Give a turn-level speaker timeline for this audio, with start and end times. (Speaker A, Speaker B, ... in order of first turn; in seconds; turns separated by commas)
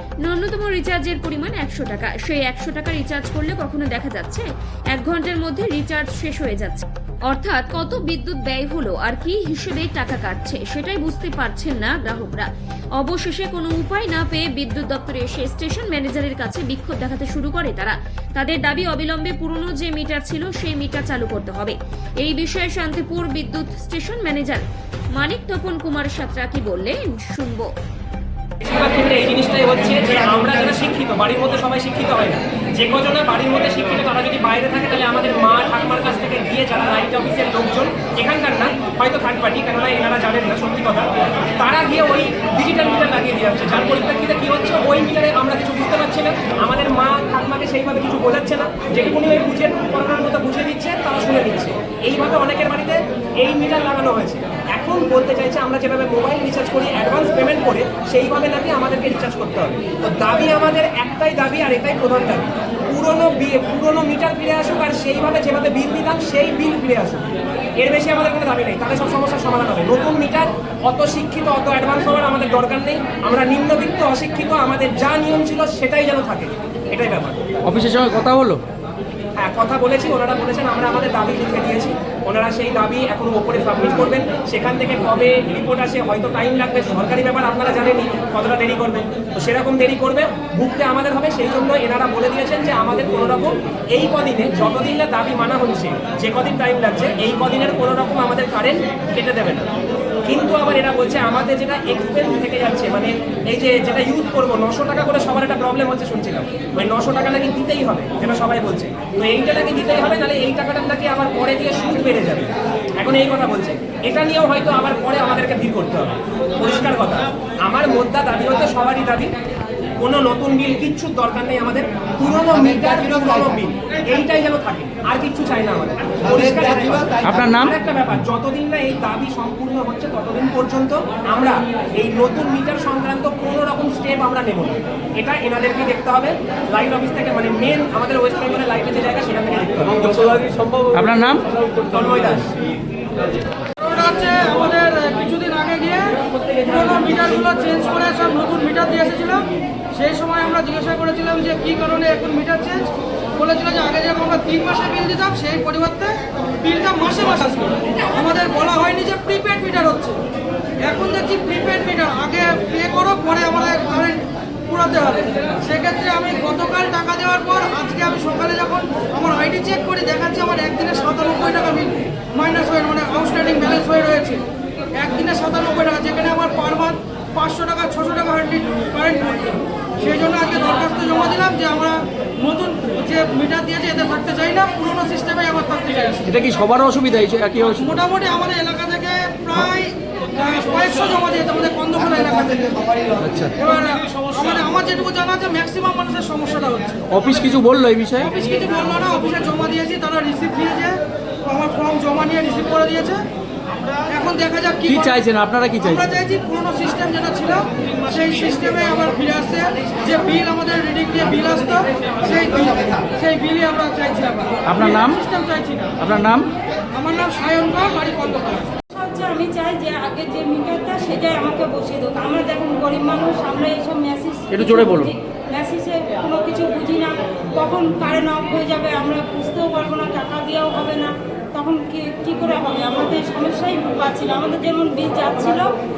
Speaker A: 0.2-24.6, Speaker A: 25.1-27.7, Speaker B: 28.6-77.5, Speaker C: 77.6-78.6, Speaker B: 79.4-99.7, Speaker B: 100.3-119.3, Speaker B: 120.0-140.9, Speaker C: 127.2-127.7, Speaker C: 140.9-141.4, Speaker B: 141.5-142.5, Speaker D: 143.8-160.2, Speaker D: 160.8-186.3, Speaker C: 186.3-187.8, Speaker D: 187.8-197.5, Speaker C: 193.2-193.5, Speaker C: 197.1-198.2, Speaker D: 198.2-203.3, Speaker D: 204.1-216.1, Speaker C: 205.0-205.9, Speaker C: 214.7-215.2, Speaker C: 216.0-216.5, Speaker D: 216.9-218.8, Speaker E: 218.9-235.7, Speaker C: 224.5-225.1